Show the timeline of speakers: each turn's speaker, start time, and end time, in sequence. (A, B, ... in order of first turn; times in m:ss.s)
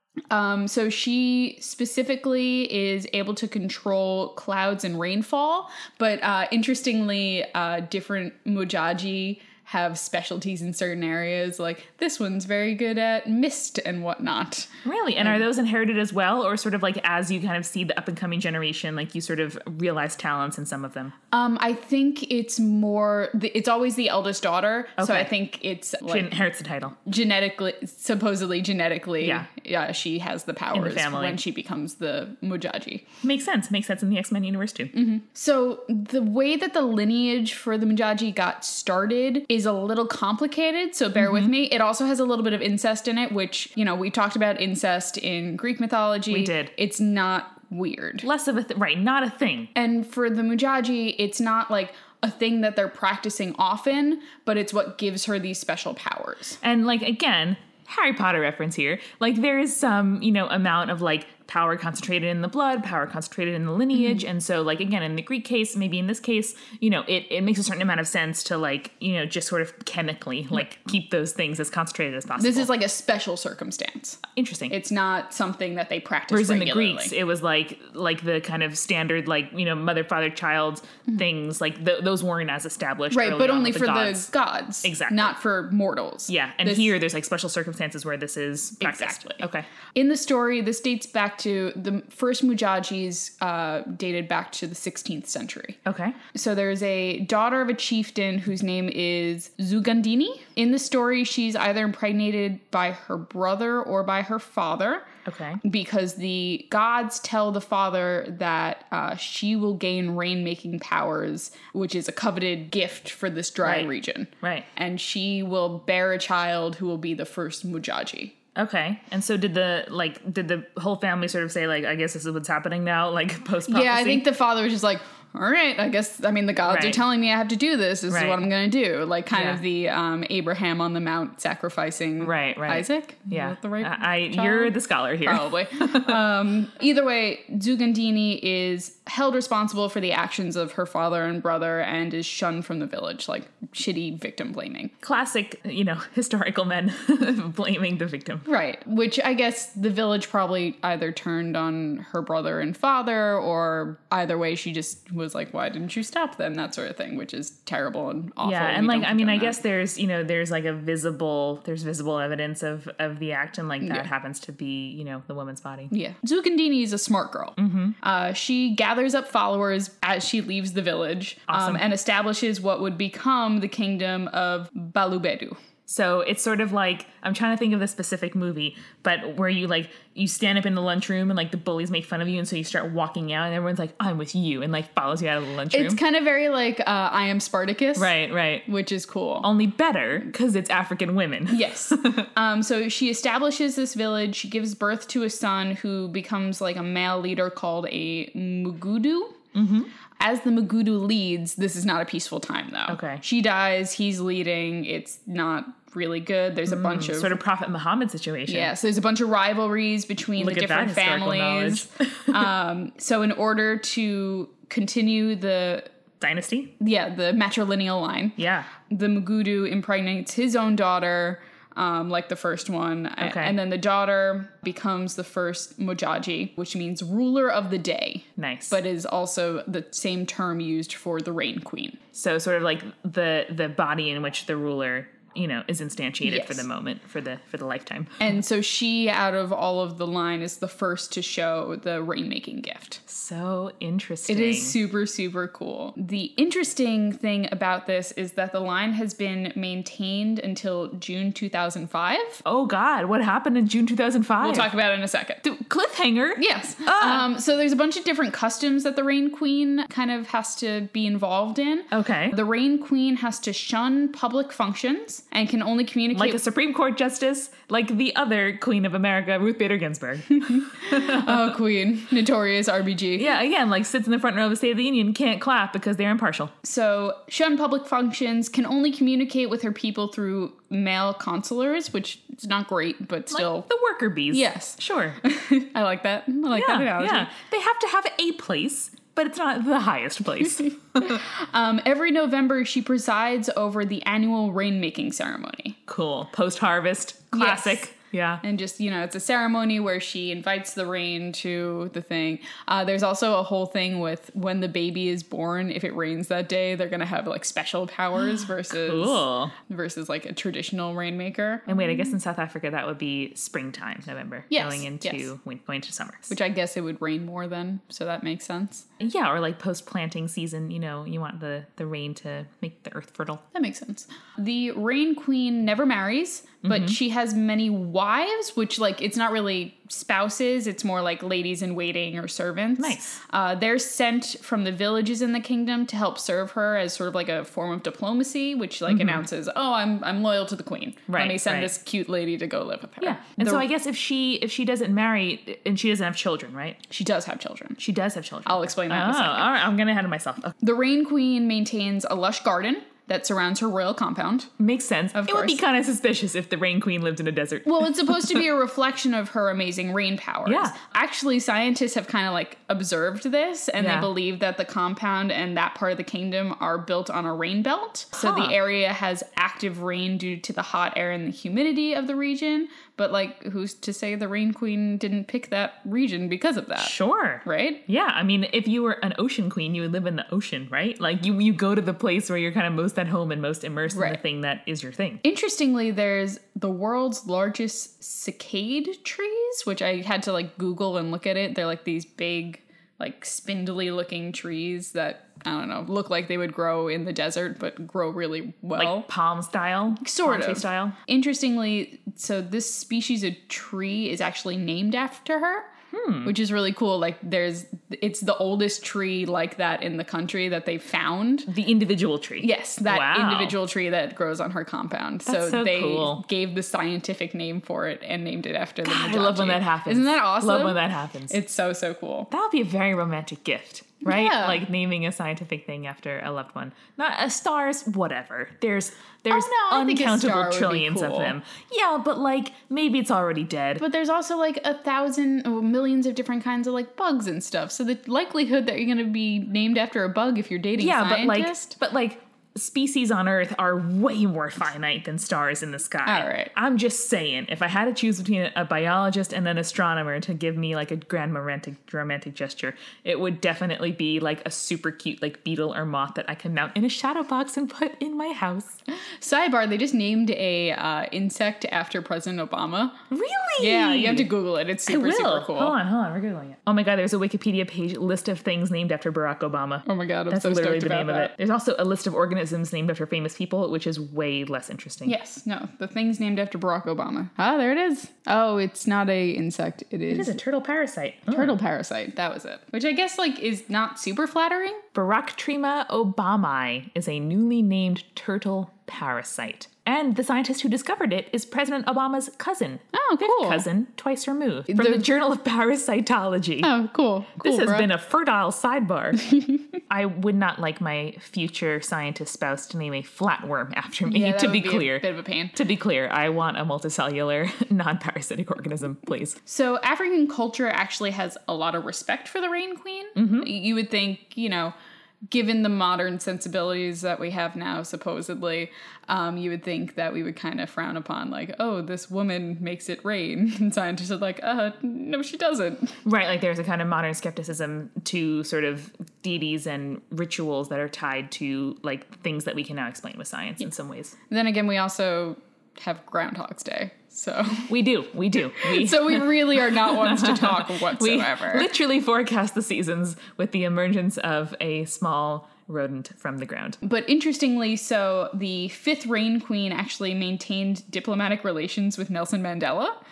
0:00.3-0:15.4 A
0:14.8-0:21.2 B
0:21.3-0:26.4 A
0:25.0-0:25.3 B
0:26.0-0:27.0 B
0:27.0-0:33.1 A
0:29.2-0:29.5 B
0:30.7-0:31.4 B
0:33.2-0:34.9 B
0:34.9-0:48.3 A
0:41.2-0:41.5 B
0:46.3-0:46.7 B
0:48.2-0:49.7 B
0:49.8-0:56.6 A
0:56.6-1:12.7 B
1:03.9-1:04.2 A
1:12.4-1:17.1 A
1:14.3-1:14.8 B
1:16.3-1:24.3 B
1:23.1-1:26.9 A
1:24.8-1:25.4 B
1:26.3-1:29.7 B
1:28.8-1:35.8 A
1:35.9-1:36.2 B
1:36.3-1:45.1 A
1:45.2-1:45.6 B
1:45.6-1:58.4 A
1:53.6-1:53.9 B
1:54.4-1:54.7 B
1:58.6-2:04.2 B
2:03.7-2:24.9 A
2:06.6-2:07.0 B
2:08.1-2:08.4 B
2:09.3-2:09.6 B
2:12.2-2:16.2 B
2:25.0-2:28.5 B
2:28.5-2:39.6 A
2:38.4-2:45.9 B
2:43.8-2:44.1 A
2:45.9-2:55.6 A
2:47.6-2:48.0 B
2:51.5-2:51.8 B
2:55.9-3:06.0 B
3:05.7-3:08.1 A
3:08.0-3:08.7 B
3:08.7-3:09.5 A
3:09.4-3:12.3 B
3:11.5-3:19.4 A
3:19.6-3:19.9 B
3:20.2-3:27.4 A
3:22.9-3:23.2 B
3:26.7-3:28.7 B
3:28.5-3:35.9 A
3:30.4-3:32.5 B
3:36.2-3:36.7 B
3:36.8-3:52.0 A
3:38.4-3:38.7 B
3:43.2-3:43.6 B
3:48.4-3:48.8 B
3:52.1-3:58.4 B
3:56.2-3:56.7 A
3:58.2-4:03.0 A
4:03.1-4:04.8 B
4:04.3-4:12.4 A
4:12.4-4:14.7 B
4:14.4-4:15.4 A
4:15.4-4:17.2 B
4:16.4-4:26.4 A
4:21.9-4:22.4 B
4:26.1-4:31.6 B
4:30.4-4:33.4 A
4:33.2-4:36.5 B
4:36.6-4:43.7 A
4:43.3-4:45.2 B
4:44.3-4:47.3 A
4:46.5-4:51.2 B
4:51.0-4:55.8 A
4:55.9-4:58.4 B
4:57.3-4:57.9 A
4:58.4-5:12.0 A
5:08.4-5:09.6 B
5:11.7-5:16.4 B
5:14.5-5:15.3 A
5:16.3-5:18.9 A
5:19.0-5:23.4 B
5:23.5-5:43.7 A
5:26.6-5:27.0 B
5:32.8-5:33.2 B
5:38.9-5:39.2 B
5:41.1-5:41.7 B
5:43.0-5:46.8 B
5:46.9-5:47.8 A
5:47.8-5:50.5 B
5:48.5-5:49.5 A
5:50.6-5:54.5 A
5:54.6-5:58.5 B
5:55.1-5:55.6 A
5:57.6-6:16.9 A
6:00.5-6:00.8 B
6:03.8-6:04.1 B
6:08.2-6:08.6 B
6:16.8-6:25.2 B
6:17.5-6:17.8 A
6:23.9-6:24.2 A
6:25.2-6:39.1 A
6:38.8-6:41.0 B
6:40.0-6:45.7 A
6:45.9-6:46.4 B
6:46.2-6:51.5 A
6:51.5-6:53.6 B
6:52.4-7:02.3 A
6:55.3-6:56.2 B
6:58.8-7:01.4 B
7:02.3-7:13.8 B
7:04.0-7:04.6 A
7:09.3-7:11.4 A
7:13.8-7:21.8 A
7:20.8-7:38.8 B
7:26.0-7:26.5 A
7:39.2-7:43.0 A
7:43.1-7:44.3 B
7:43.6-7:45.8 A
7:44.9-7:55.2 B
7:49.9-7:51.3 A
7:55.1-8:00.4 A
8:00.1-8:01.6 B
8:01.3-8:04.8 A
8:04.9-8:16.7 B
8:12.9-8:13.6 A
8:14.7-8:15.1 A
8:16.6-8:17.9 A
8:17.4-8:19.3 B
8:19.3-8:19.6 A
8:19.9-8:29.4 B
8:24.1-8:25.6 A
8:29.5-8:34.7 A
8:33.2-8:33.5 B
8:35.3-8:46.0 A
8:46.0-8:54.2 B
8:54.3-8:57.7 A
8:57.7-9:06.8 B
8:58.6-9:01.7 A
9:06.8-9:13.0 A